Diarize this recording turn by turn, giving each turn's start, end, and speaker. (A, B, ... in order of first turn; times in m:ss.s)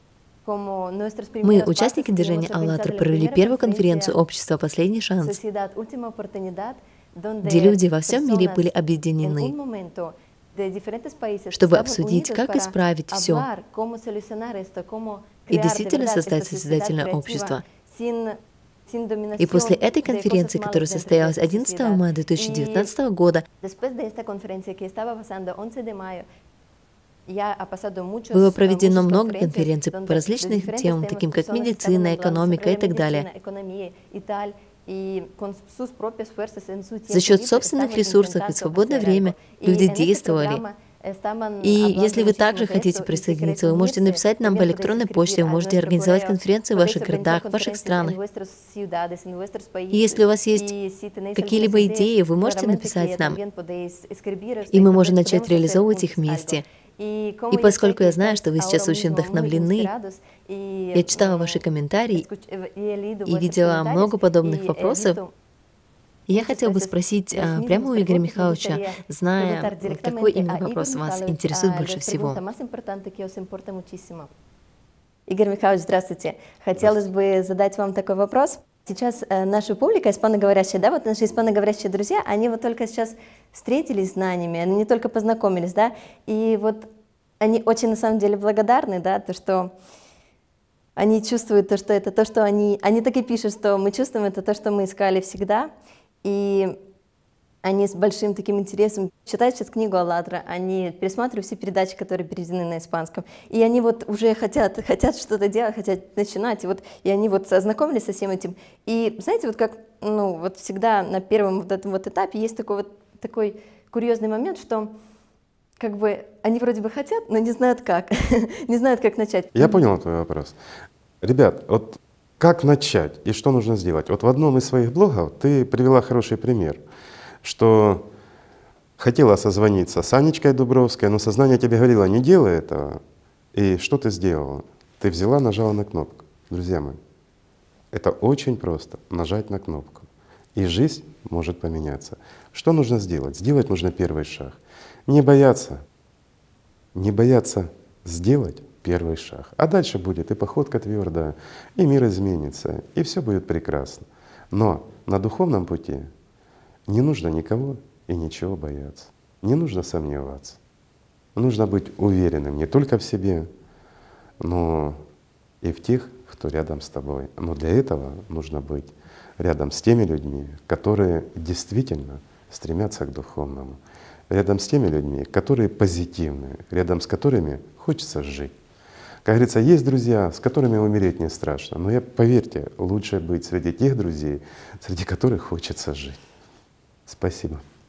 0:00.4-0:04.2 A
0:01.4-0:05.4 B
0:05.2-0:18.4 A
0:07.4-0:09.5 B
0:11.5-0:13.4 B
0:15.5-0:17.6 B
0:18.9-0:22.9 A
0:19.4-0:23.4 B
0:23.6-0:26.2 A
0:27.3-1:05.3 A
0:28.3-0:33.3 B
0:37.1-0:40.6 B
0:41.6-0:48.2 B
0:49.9-0:50.7 B
0:51.4-0:53.4 B
0:54.7-0:56.6 B
0:57.5-0:59.9 B
1:00.9-1:02.2 B
1:03.2-1:05.2 B
1:06.3-1:12.4 B
1:06.3-1:14.3 A
1:15.3-1:26.9 A
1:27.4-1:29.7 A
1:31.0-1:35.7 A
1:36.2-1:36.8 A
1:37.6-1:54.9 A
1:55.8-1:59.9 A
1:59.6-2:00.6 C
2:01.2-2:06.8 C
2:07.4-2:08.1 C
2:09.0-2:13.0 C
2:13.5-2:17.0 C
2:17.9-2:25.8 C
2:26.9-2:36.1 C
2:36.9-2:40.6 C
2:41.3-2:43.5 C
2:44.4-2:45.0 C
2:45.6-2:58.6 C
2:59.2-3:06.2 C
3:07.1-3:07.6 C